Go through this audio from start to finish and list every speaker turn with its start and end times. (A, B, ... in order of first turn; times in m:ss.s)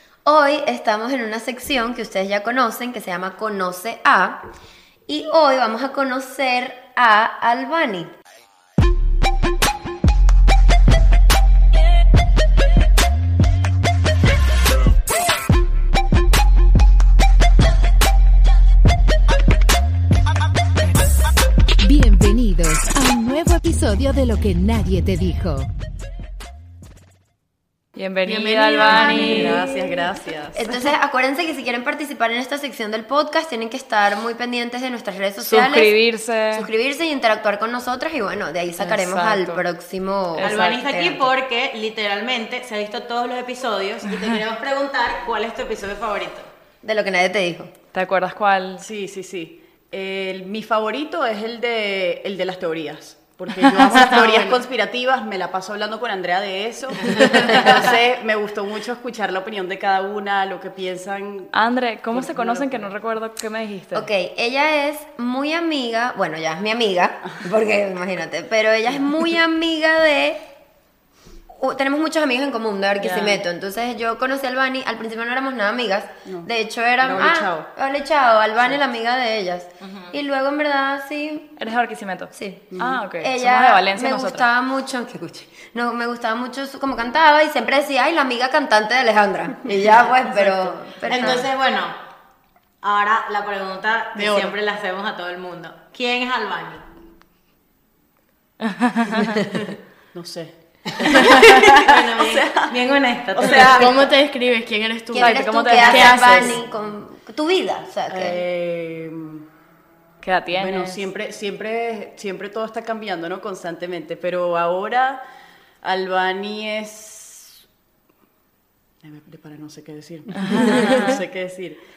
0:00.2-0:04.4 A
0:05.1-0:08.1 A
0:21.8-0:25.7 B
0:28.0-0:29.6 C
0:28.2-0:29.6 D
0:28.8-0:30.8 E
0:29.4-0:35.9 A
0:35.4-0:36.7 C
0:36.5-0:41.3 A
0:38.8-0:39.6 C
0:40.3-0:40.7 C
0:40.4-0:46.5 F
0:46.8-0:47.7 A
0:47.9-0:48.8 C
0:48.8-1:01.5 E
0:53.6-0:54.1 C
0:54.1-0:54.6 D
1:01.5-1:04.1 C
1:02.1-1:02.9 E
1:03.9-1:10.4 A
1:11.5-1:21.5 A
1:16.2-1:17.7 E
1:19.8-1:20.2 F
1:21.6-1:24.5 C
1:22.3-1:22.7 A
1:22.7-1:23.0 E
1:23.2-1:31.5 A
1:31.0-1:32.0 F
1:32.8-1:36.8 F
1:34.2-1:34.5 D
1:38.7-1:39.2 C
1:40.1-1:42.8 E
1:41.0-1:44.1 F
1:43.3-1:44.0 E
1:43.7-1:46.6 D
1:45.1-1:48.4 A
1:45.2-1:46.6 C
1:48.1-1:49.4 E
1:50.2-1:51.0 C
1:50.5-1:55.2 E
1:55.8-1:57.6 E
1:59.0-2:01.8 E
2:00.4-2:01.0 C